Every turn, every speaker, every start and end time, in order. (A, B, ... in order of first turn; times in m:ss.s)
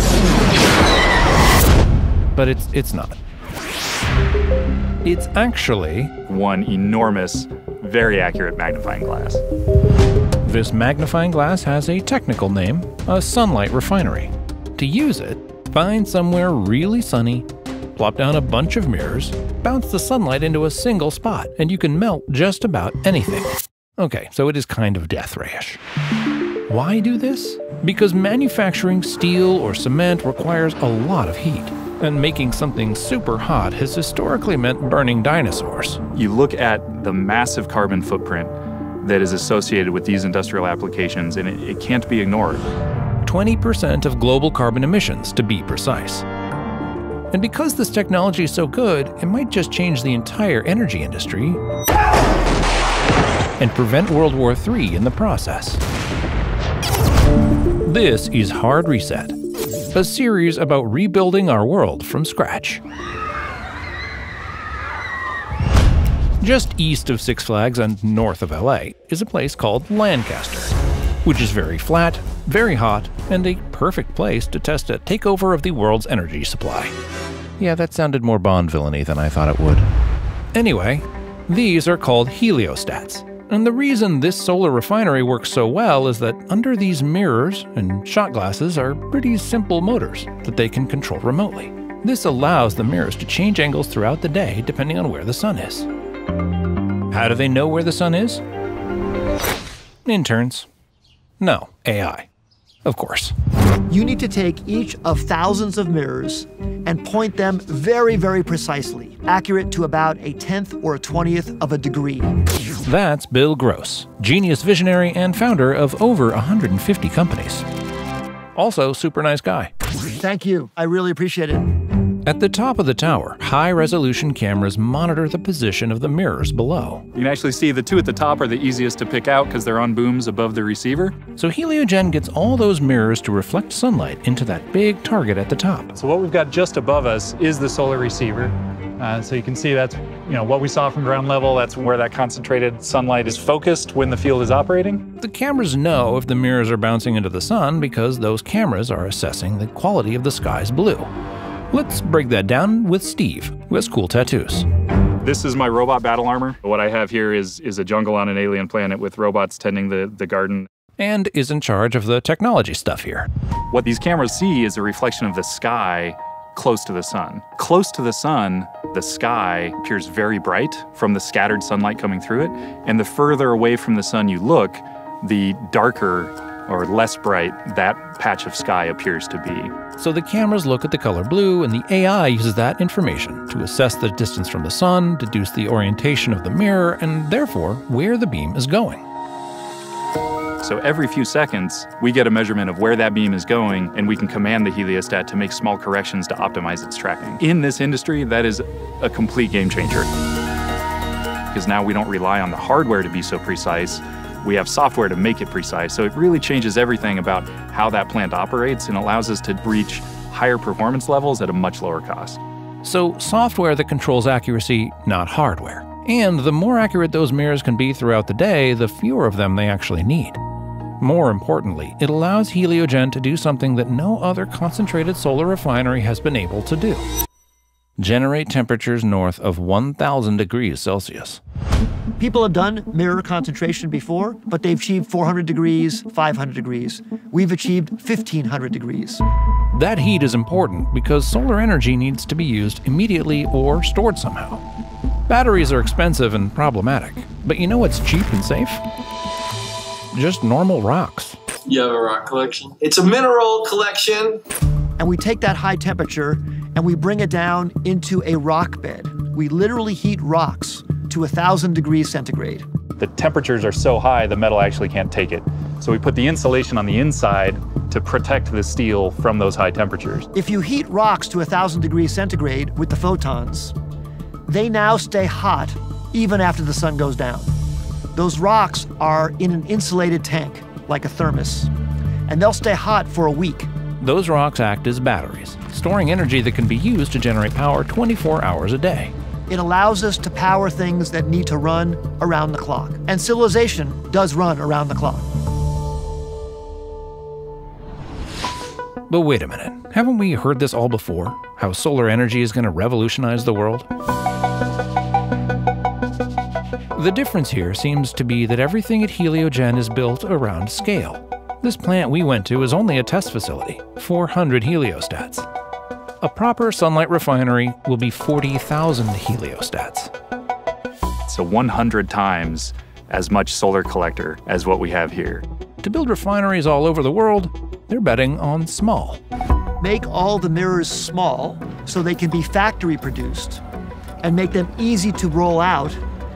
0:02.3-0:03.2 A
0:05.0-0:06.1 A
0:06.3-0:09.4 B
0:10.4-0:25.8 A
0:26.7-0:36.0 A
0:36.1-0:42.7 B
0:43.2-0:46.2 A
0:47.3-0:51.6 A
0:53.6-0:55.8 A
0:57.8-0:59.4 A
0:59.9-1:02.8 A
1:06.4-1:10.7 A
1:11.2-1:16.9 A
1:17.6-1:19.9 A
1:20.5-1:35.9 A
1:37.1-1:38.4 A
1:40.0-1:40.7 A
1:41.4-1:42.3 A
1:42.8-1:43.3 A
1:43.9-1:52.3 C
1:52.8-1:57.6 A
1:58.5-1:59.7 A
2:00.2-2:01.7 C
2:02.2-2:07.0 A
2:07.1-2:11.2 B
2:11.4-2:15.9 A
2:15.9-2:25.1 B
2:25.2-2:31.1 A
2:31.7-2:34.6 A
2:35.2-2:40.7 B
2:41.0-2:43.3 A
2:43.7-2:59.7 B
3:00.0-3:09.0 A
3:10.6-3:20.1 B
3:21.5-3:32.4 B
3:32.8-3:40.4 A
3:41.0-3:47.0 A
3:48.0-3:51.4 A
3:52.2-3:59.2 C
3:59.7-4:04.6 A
4:05.3-4:08.8 A
4:10.1-4:11.4 A
4:11.7-4:14.4 D
4:15.0-4:22.6 C
4:23.0-4:30.3 B
4:30.3-4:33.7 C
4:34.5-4:37.5 C
4:38.1-4:41.7 C
4:42.3-4:43.7 C
4:44.0-4:49.1 A
4:49.5-4:55.3 C
4:59.1-5:03.8 A
5:06.9-5:15.5 A
5:16.2-5:20.1 A
5:21.3-5:25.4 B
5:25.8-5:29.2 A
5:29.8-5:33.6 C
5:34.2-5:36.0 C